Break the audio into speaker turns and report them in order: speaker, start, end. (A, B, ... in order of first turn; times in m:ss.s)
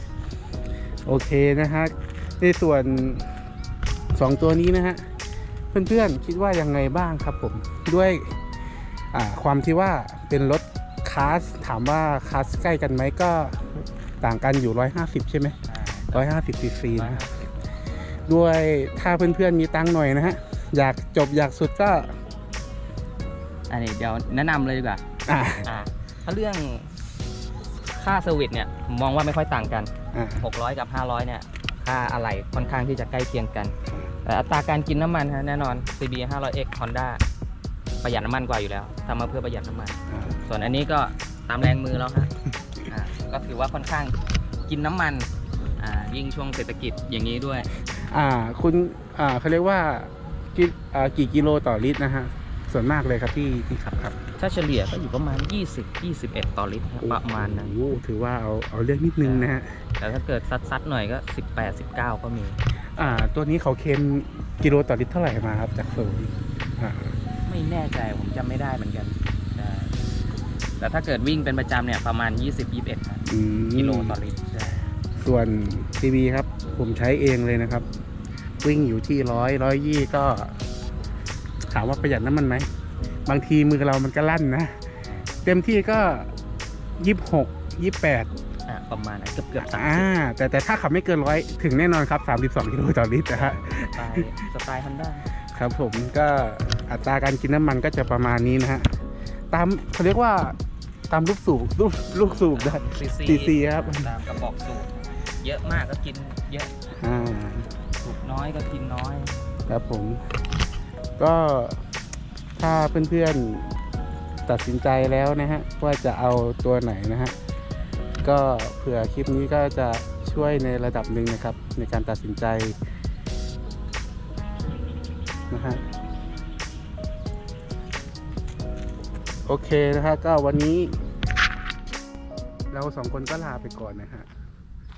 0:01.0-0:03.3 A
0:04.1-0:05.1 A
0:05.7-0:08.4 A
0:09.1-0:15.6 A
0:15.7-0:16.3 B
0:16.1-0:17.2 A
0:17.0-0:17.5 B
0:18.3-0:22.2 A
0:23.7-0:25.0 B
0:25.3-0:25.7 A
0:25.6-0:27.0 B
0:27.9-0:37.2 B
0:30.1-0:30.4 A
0:38.0-0:42.3 B
0:40.1-0:40.4 A
0:42.9-0:47.7 B
0:48.1-0:54.2 A
0:54.4-0:57.7 B
0:57.0-0:59.8 A
0:59.2-1:02.6 B
1:03.0-1:07.2 A
1:07.4-1:09.9 B
1:10.8-1:14.9 B
1:13.3-1:14.1 A
1:15.2-1:17.9 A
1:18.6-1:20.6 A
1:21.7-1:22.7 A
1:23.2-1:24.8 A
1:25.4-1:26.3 A
1:27.0-1:28.3 A
1:28.7-1:30.1 B
1:29.6-1:34.3 A
1:33.3-1:35.3 B
1:35.5-1:39.0 A
1:39.5-1:40.6 A
1:41.1-1:44.1 A
1:42.2-1:46.7 B
1:47.0-1:47.7 A
1:48.0-1:49.4 B
1:49.7-1:50.3 A
1:51.2-1:51.8 A
1:52.6-1:53.7 A
1:54.4-1:57.3 A
1:58.2-2:02.8 A
2:05.5-2:05.8 A
2:09.4-2:11.0 A
2:12.7-2:14.3 A